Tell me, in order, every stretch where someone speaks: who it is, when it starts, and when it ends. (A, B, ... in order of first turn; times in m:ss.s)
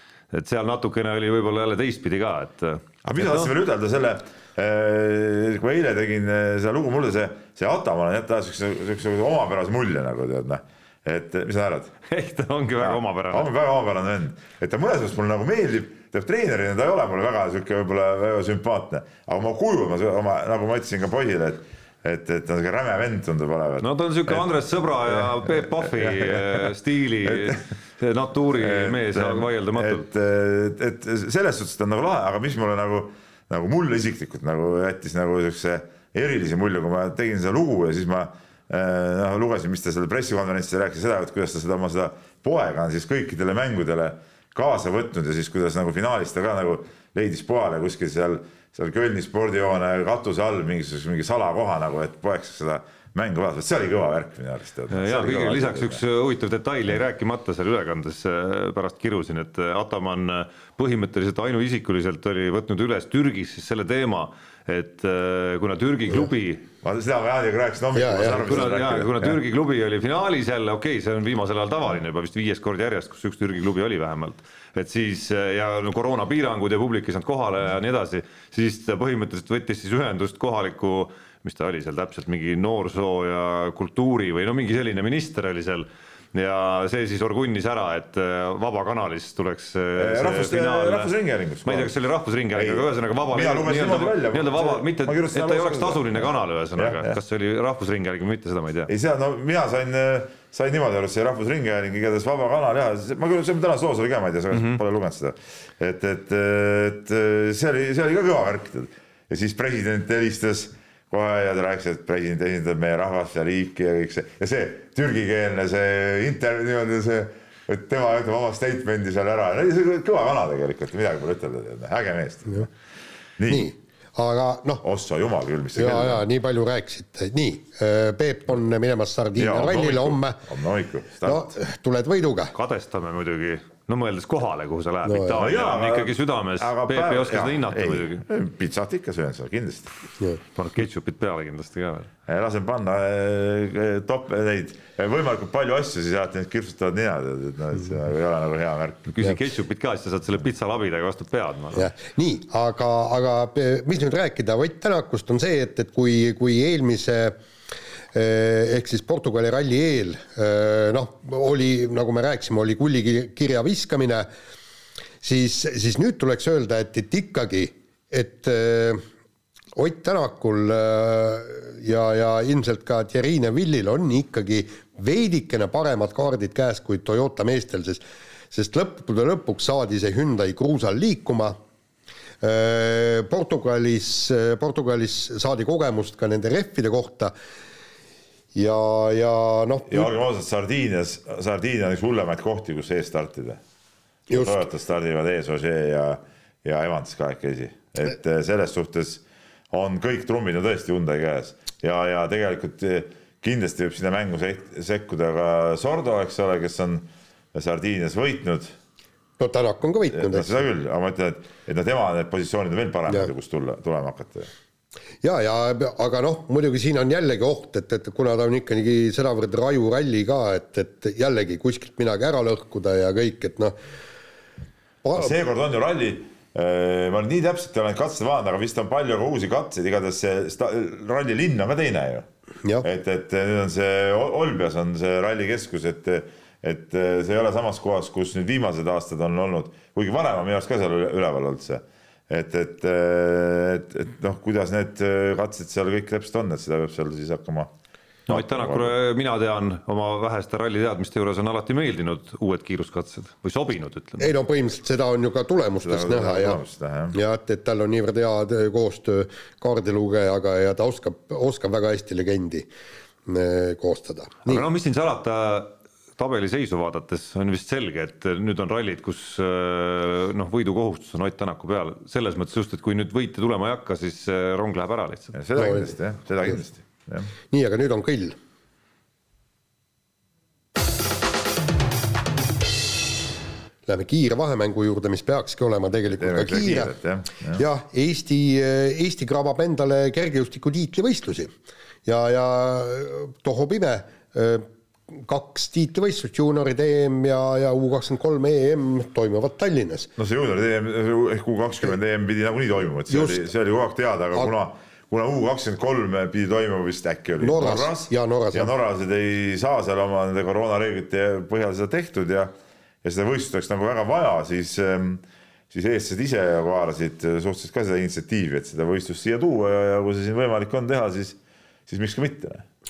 0:00.3-0:03.5 A
0:03.0-0:11.9 B
0:12.1-0:13.5 A
0:12.8-0:24.5 B
0:23.8-0:30.0 A
0:25.0-0:26.7 B
0:27.2-0:27.6 B
0:28.5-0:56.0 B
0:54.9-1:06.7 A
1:06.8-1:09.4 B
1:07.9-1:08.6 C
1:08.2-1:31.1 A
1:30.0-1:31.9 B
1:31.6-1:38.9 A
1:32.5-1:37.2 B
1:38.9-2:02.7 B
1:44.5-1:44.8 A
2:03.4-2:03.7 B
2:03.5-2:04.8 C
2:04.8-2:06.2 B
2:05.7-2:10.4 C
2:09.4-2:11.6 B
2:11.2-2:12.5 C
2:12.5-2:18.2 A
2:15.0-2:15.4 C
2:15.4-2:19.9 B
2:20.5-2:22.1 A
2:22.3-2:29.1 B
2:29.1-2:31.9 A
2:31.7-2:37.3 C
2:38.1-2:44.3 C
2:45.2-2:49.0 C
2:49.7-3:01.6 C
3:02.4-3:07.3 C
3:08.5-3:10.1 C
3:09.9-3:13.6 B
3:14.3-3:14.6 C
3:14.3-3:28.7 B
3:29.4-3:30.6 C
3:30.1-3:34.5 B
3:35.2-3:43.7 C
3:45.0-3:45.3 C
3:45.2-3:52.2 B
3:52.8-4:07.7 B
4:08.3-4:14.3 A
4:08.3-4:08.9 B
4:14.2-4:16.6 C
4:15.8-4:17.2 B
4:17.1-4:22.7 C
4:23.2-4:24.6 C
4:24.4-4:35.3 A
4:35.3-4:37.3 B
4:35.6-4:35.9 C
4:37.5-4:38.4 C
4:43.9-4:46.9 C
4:46.1-4:47.6 B
4:47.6-4:51.5 C
4:52.0-5:00.1 C
5:00.2-5:12.5 B
5:03.1-5:03.4 C
5:07.4-5:08.7 C
5:13.0-5:22.6 B